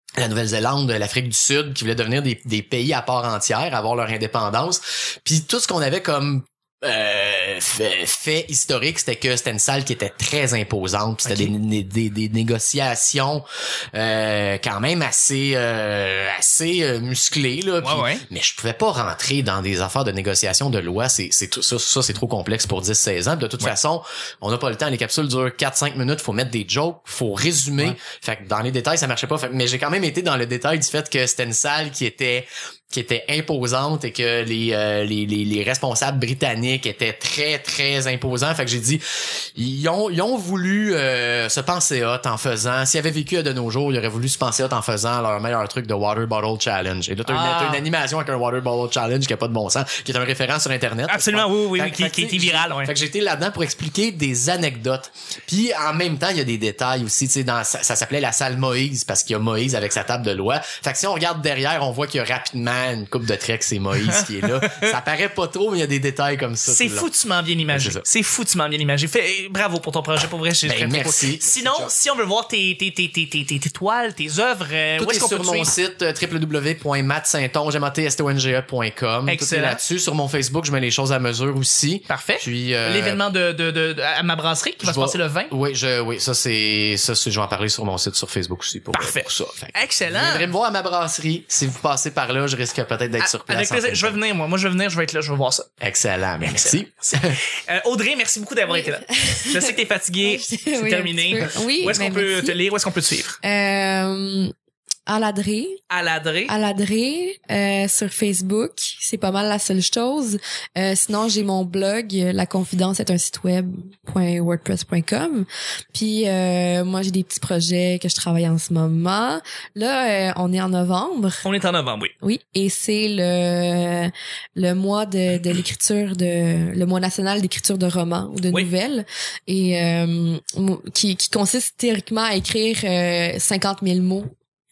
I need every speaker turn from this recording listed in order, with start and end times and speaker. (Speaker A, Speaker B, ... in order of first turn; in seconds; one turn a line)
Speaker A: 0.2-67.1
Speaker B: 11.2-11.5
Speaker B: 17.8-18.2
Speaker B: 47.2-47.8
Speaker B: 51.1-52.9
Speaker B: 64.1-65.0
Speaker B: 66.7-75.7
Speaker A: 67.7-68.0
Speaker A: 70.6-71.9
Speaker A: 75.0-83.2
Speaker B: 79.3-79.8
Speaker B: 82.1-85.5
Speaker A: 84.8-94.2
Speaker B: 88.9-90.5
Speaker B: 93.2-95.7
Speaker A: 95.8-97.4
Speaker B: 96.4-103.4
Speaker C: 98.7-102.6
Speaker C: 103.4-104.5
Speaker C: 105.1-105.8
Speaker B: 105.9-106.5
Speaker C: 106.5-121.4
Speaker B: 121.4-122.1
Speaker C: 122.2-134.3